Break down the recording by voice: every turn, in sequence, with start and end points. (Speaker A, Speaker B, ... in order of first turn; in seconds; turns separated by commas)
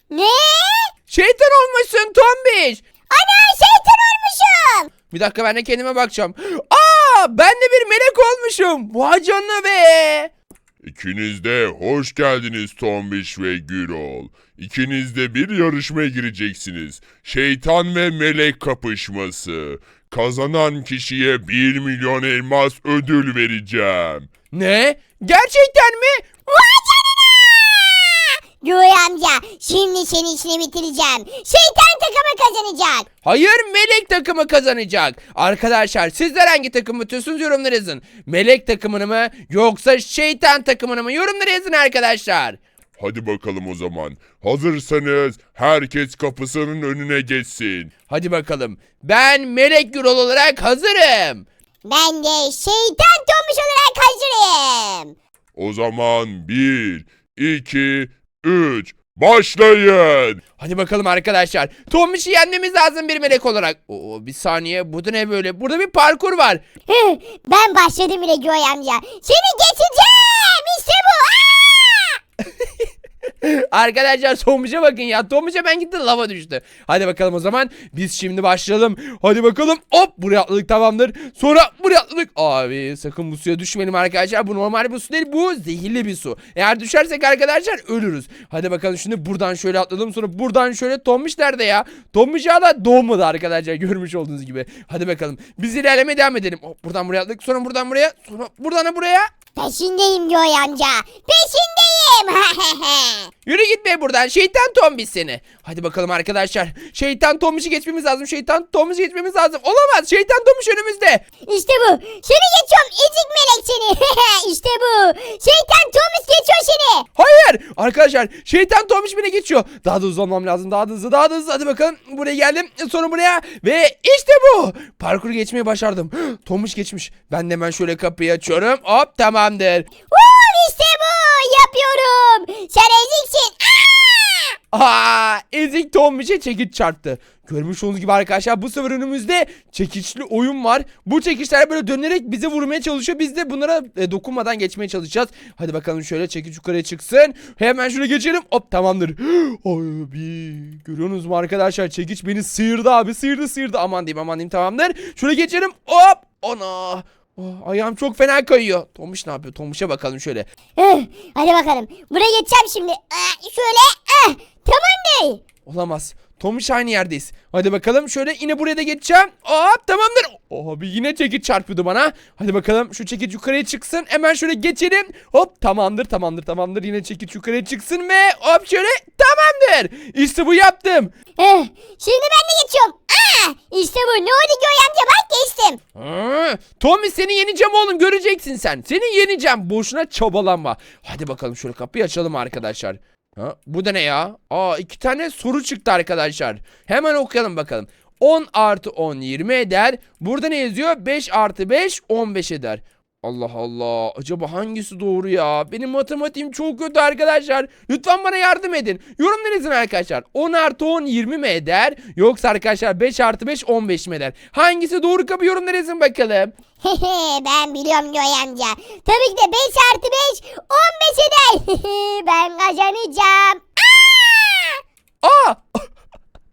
Speaker A: 0.1-0.9, Speaker B: 1.1-2.8, Speaker A: 3.1-4.9, Speaker B: 5.1-10.3, Speaker C: 10.8-24.3, Speaker B: 24.5-26.2, Speaker A: 26.5-33.1, Speaker B: 33.2-42.6, Speaker C: 43.0-47.9, Speaker B: 48.1-51.5, Speaker A: 51.9-55.1, Speaker C: 55.6-60.4, Speaker B: 60.6-66.6, Speaker A: 66.9-72.2, Speaker B: 73.4-99.3, Speaker A: 99.6-103.3, Speaker B: 103.5-111.2, Speaker A: 111.5-117.0, Speaker B: 117.2-129.9, Speaker A: 130.1-134.5, Speaker B: 134.7-160.5, Speaker A: 160.8-165.4, Speaker B: 165.7-181.1, Speaker A: 181.4-185.8, Speaker B: 186.0-216.5, Speaker A: 216.8-224.8, Speaker B: 225.2-225.8